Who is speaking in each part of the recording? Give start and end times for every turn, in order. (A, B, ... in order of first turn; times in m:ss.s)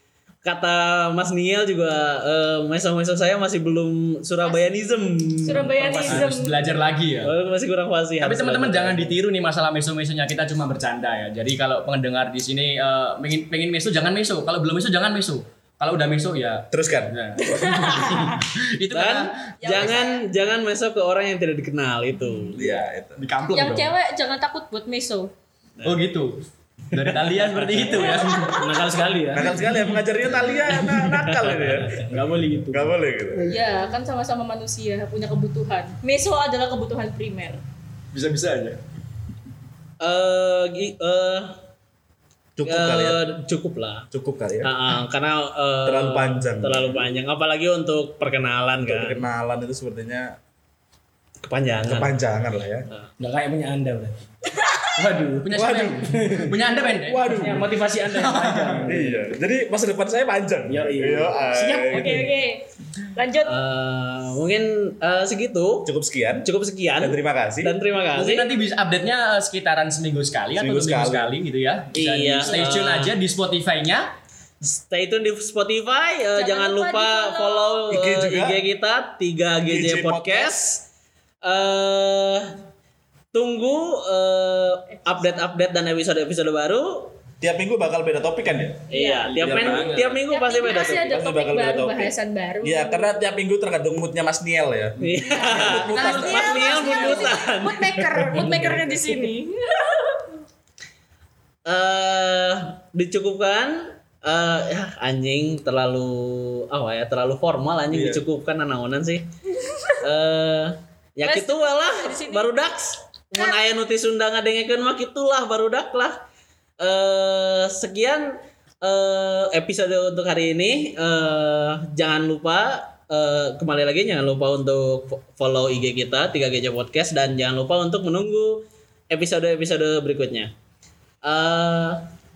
0:00.4-0:06.3 A
0:05.4-0:06.6 B
0:06.0-0:07.3 C
0:07.2-0:09.2 A
0:08.2-0:20.0 C
0:16.7-0:17.2 D
0:17.4-0:18.4 B
0:18.9-0:22.8 A
0:19.6-0:20.2 B
0:22.6-0:23.3 D
0:23.2-0:23.9 C
0:23.5-0:25.3 B
0:25.8-0:28.6 C
0:27.8-0:28.6 B
0:28.6-0:29.5 E
0:29.3-0:32.2 D
0:30.4-0:31.8 A
0:32.1-0:32.9 E
0:32.7-0:33.6 D
0:33.5-0:37.6 B
0:38.1-0:38.8 C
0:40.0-0:41.5 A
0:42.6-0:43.2 D
0:42.7-0:44.0 A
0:44.1-0:44.7 D
0:44.6-0:49.2 A
0:45.9-0:47.0 D
0:48.8-0:50.3 D
0:51.5-0:52.1 A
0:51.9-0:52.9 D
0:53.2-0:54.3 E
0:55.0-0:55.5 E
0:55.4-0:57.3 C
0:55.5-0:56.6 D
0:57.1-0:57.7 D
0:57.4-0:59.0 E
0:58.2-0:58.7 C
0:58.8-1:02.3 D
1:00.7-1:01.8 E
1:01.7-1:03.6 B
1:03.4-1:05.9 A
1:05.9-1:06.5 D
1:06.4-1:08.5 A
1:07.0-1:07.7 D
1:08.1-1:14.1 C
1:10.6-1:11.4 D
1:11.9-1:13.1 A
1:14.6-1:20.8 A
1:16.4-1:17.9 B
1:17.9-1:18.6 D
1:19.7-1:20.5 D
1:21.4-1:22.4 A
1:23.3-1:27.2 A
1:25.1-1:25.5 B
1:27.4-1:28.9 D
1:28.9-1:29.4 B
1:28.9-1:31.1 A
1:29.3-1:30.2 C
1:29.4-1:30.1 D
1:30.2-1:33.2 B
1:30.9-1:36.8 D
1:35.0-1:37.9 A
1:35.2-1:40.2 B
1:35.9-1:37.3 C
1:41.7-1:49.2 A
1:47.9-1:48.2 D
1:50.0-1:56.2 A
1:51.2-1:52.5 B
1:56.8-1:58.3 A
1:58.8-2:10.5 A
2:11.2-2:12.0 A